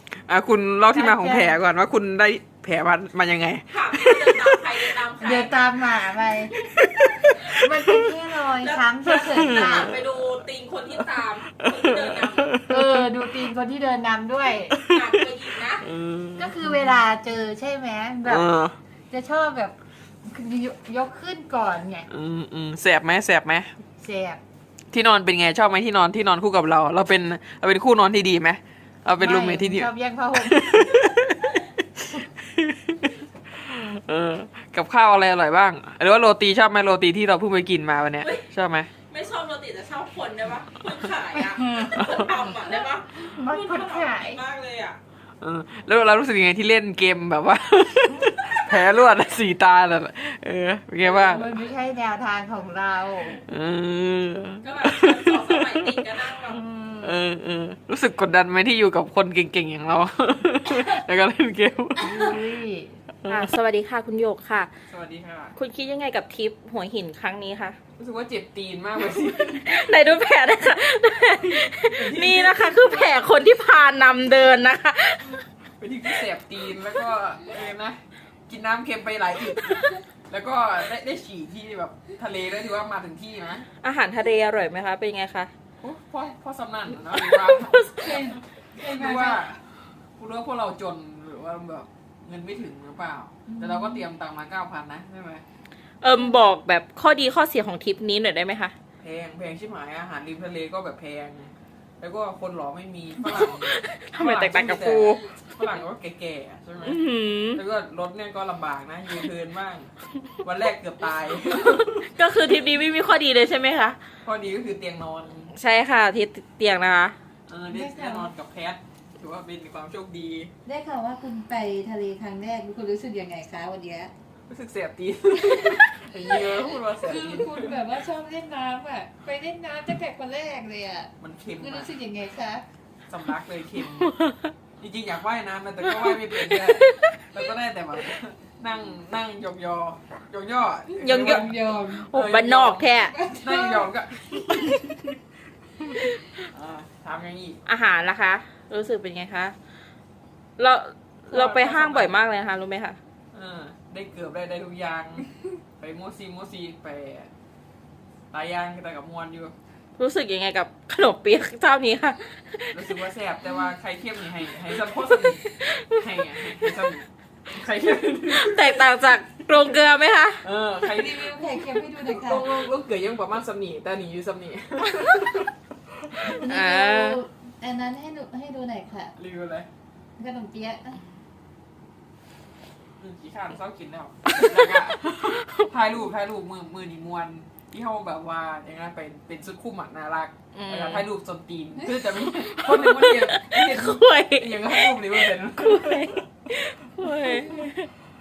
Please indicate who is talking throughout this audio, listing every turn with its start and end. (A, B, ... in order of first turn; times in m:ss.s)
0:00.3-0:04.8 A
0:00.9-0:01.6 B
0:03.7-0:05.6 C
0:05.2-0:06.5 B
0:06.7-0:08.0 A
0:07.4-0:09.9 B
0:08.6-0:12.6 C
0:09.2-0:10.0 A
0:11.6-0:13.1 A
0:12.7-0:14.8 B
0:14.7-0:15.2 A
0:14.8-0:15.8 C
0:15.8-0:17.0 A
0:16.4-0:18.5 B
0:18.2-0:18.8 A
0:19.1-0:22.1 B
0:22.1-0:23.7 A
0:24.0-0:24.4 B
0:24.9-0:38.9 A
0:29.2-0:31.1 B
0:38.2-0:38.5 C
0:39.1-0:45.0 C
0:41.3-0:44.4 B
0:45.4-0:51.5 A
0:51.0-0:53.4 B
0:53.5-0:56.0 A
0:54.6-0:56.6 C
0:56.5-0:57.2 B
0:57.0-1:02.4 A
1:02.0-1:03.0 B
1:03.2-1:04.7 C
1:04.9-1:05.5 A
1:05.6-1:07.8 C
1:08.0-1:09.7 A
1:09.6-1:15.4 C
1:11.9-1:12.8 A
1:15.8-1:23.7 A
1:23.8-1:25.5 C
1:25.8-1:29.6 A
1:27.1-1:28.0 C
1:28.0-1:29.4 B
1:30.2-1:35.4 A
1:33.5-1:34.1 B
1:36.0-1:38.7 C
1:39.0-1:47.0 A
1:43.3-1:45.2 C
1:46.8-1:47.6 C
1:47.5-1:49.9 A
1:50.4-1:52.1 A
1:51.5-1:54.0 C
1:54.2-1:55.5 A
1:55.5-1:57.2 C
1:57.5-2:00.5 A
1:57.7-1:58.3 B
2:00.6-2:04.1 B
2:04.5-2:07.8 A
2:05.5-2:12.6 B
2:11.2-2:11.9 A
2:13.1-2:14.1 A
2:14.1-2:14.5 C
2:14.8-2:21.6 A
2:16.1-2:17.1 C
2:21.0-2:23.1 C
2:21.0-2:22.1 B
2:22.1-2:25.1 A
2:23.0-2:23.9 B
2:26.4-2:27.6 A
2:27.6-2:29.5 C
2:30.6-2:33.0 C
2:31.2-2:32.2 A
2:33.3-2:37.3 A
2:38.3-2:39.5 A
2:40.0-2:42.8 C
2:42.7-2:48.8 A
2:45.1-2:46.7 C
2:48.3-2:50.4 C
2:50.4-2:55.5 A
2:50.8-2:52.7 B
2:56.3-2:59.1 B
2:56.3-2:57.2 C
2:59.2-2:59.7 A
3:00.2-3:01.0 B
3:03.0-3:16.2 A
3:04.3-3:05.7 C
3:10.5-3:11.0 C
3:12.3-3:17.9 C
3:17.0-3:17.7 B